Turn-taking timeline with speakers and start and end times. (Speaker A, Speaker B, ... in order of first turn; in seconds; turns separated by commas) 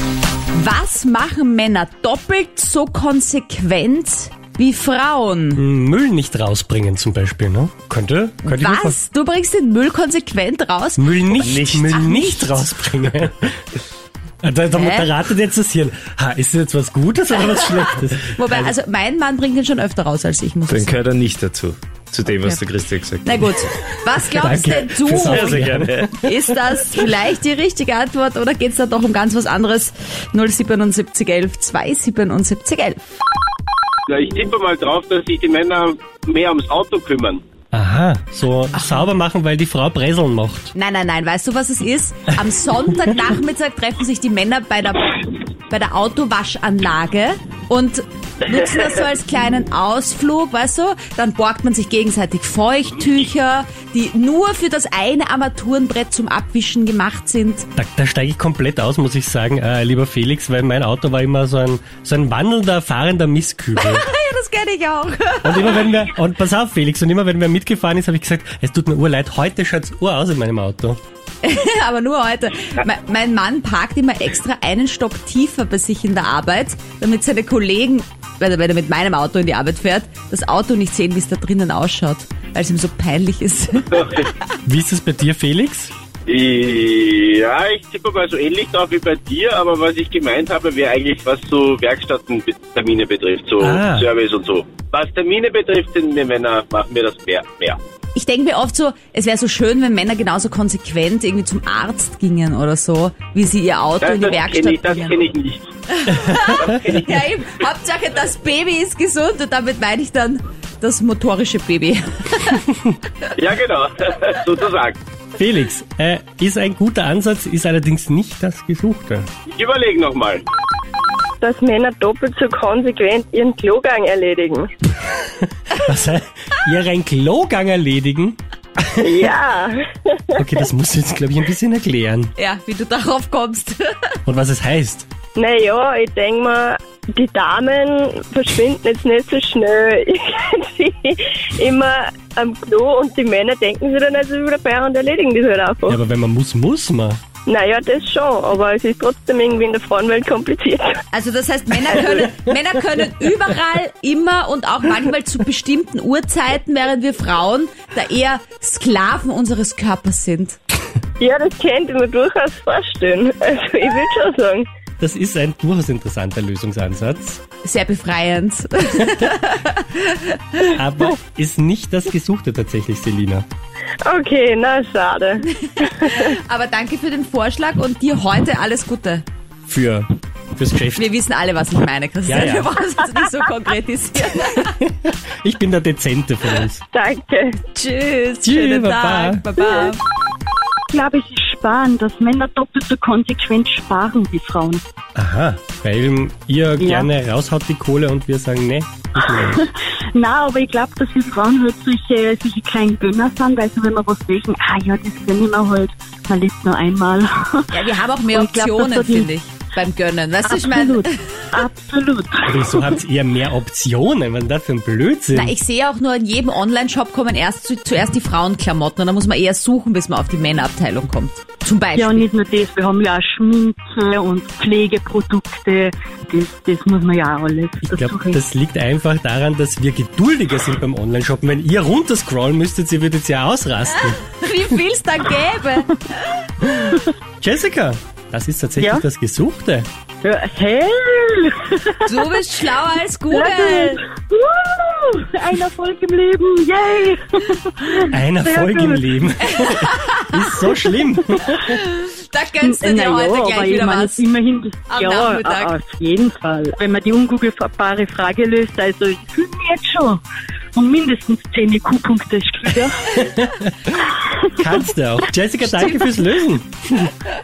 Speaker A: 0.5-5.6, Speaker B: 5.5-9.0, Speaker A: 8.4-12.7, Speaker B: 11.0-13.6, Speaker C: 11.4-12.0, Speaker B: 14.4-18.7, Speaker A: 14.7-15.1, Speaker A: 18.3-21.0, Speaker C: 20.7-23.5, Speaker A: 23.2-25.6, Speaker B: 24.3-26.1, Speaker C: 25.2-26.2, Speaker A: 26.2-33.0, Speaker D: 34.1-37.4, Speaker B: 37.7-40.7, Speaker A: 40.8-57.7, Speaker B: 57.8-64.1, Speaker A: 63.8-65.9, Speaker B: 65.4-71.0, Speaker A: 71.4-84.3, Speaker D: 83.9-84.2, Speaker B: 84.7-85.9, Speaker D: 86.3-97.8, Speaker B: 93.6-94.1, Speaker A: 98.2-105.2, Speaker D: 104.0-107.2, Speaker A: 105.9-112.7, Speaker D: 113.4-115.0, Speaker B: 115.4-119.3, Speaker D: 119.5-120.4, Speaker E: 121.4-124.7, Speaker B: 125.7-129.2, Speaker E: 129.0-130.2, Speaker B: 130.4-132.3, Speaker A: 132.4-134.1, Speaker B: 134.3-135.1, Speaker E: 135.4-146.0, Speaker B: 145.9-147.2, Speaker E: 147.5-151.0, Speaker A: 151.1-160.6, Speaker E: 161.2-164.7, Speaker B: 165.0-167.4, Speaker A: 167.6-170.7, Speaker B: 170.6-173.5, Speaker E: 174.1-176.3, Speaker A: 175.8-179.3, Speaker B: 179.7-181.1, Speaker A: 180.9-184.7, Speaker B: 182.3-182.8, Speaker B: 184.4-186.8, Speaker E: 186.9-187.6, Speaker A: 187.7-190.0, Speaker B: 188.4-189.4, Speaker E: 189.6-189.9, Speaker F: 190.9-194.8, Speaker B: 195.2-199.6, Speaker F: 196.8-197.1, Speaker F: 199.3-207.8, Speaker A: 207.7-211.4, Speaker F: 208.3-209.3, Speaker F: 210.4-212.8, Speaker B: 212.5-215.5, Speaker A: 215.3-222.2, Speaker F: 222.0-228.4, Speaker B: 227.8-234.8, Speaker A: 234.1-236.3, Speaker B: 236.6-239.9, Speaker F: 240.2-242.4, Speaker A: 242.0-244.0, Speaker F: 243.3-249.1, Speaker B: 248.1-251.8, Speaker A: 249.4-250.4, Speaker A: 251.6-254.2, Speaker F: 252.6-260.2, Speaker A: 254.9-255.8, Speaker F: 260.8-263.2, Speaker B: 263.2-267.1, Speaker A: 265.7-266.1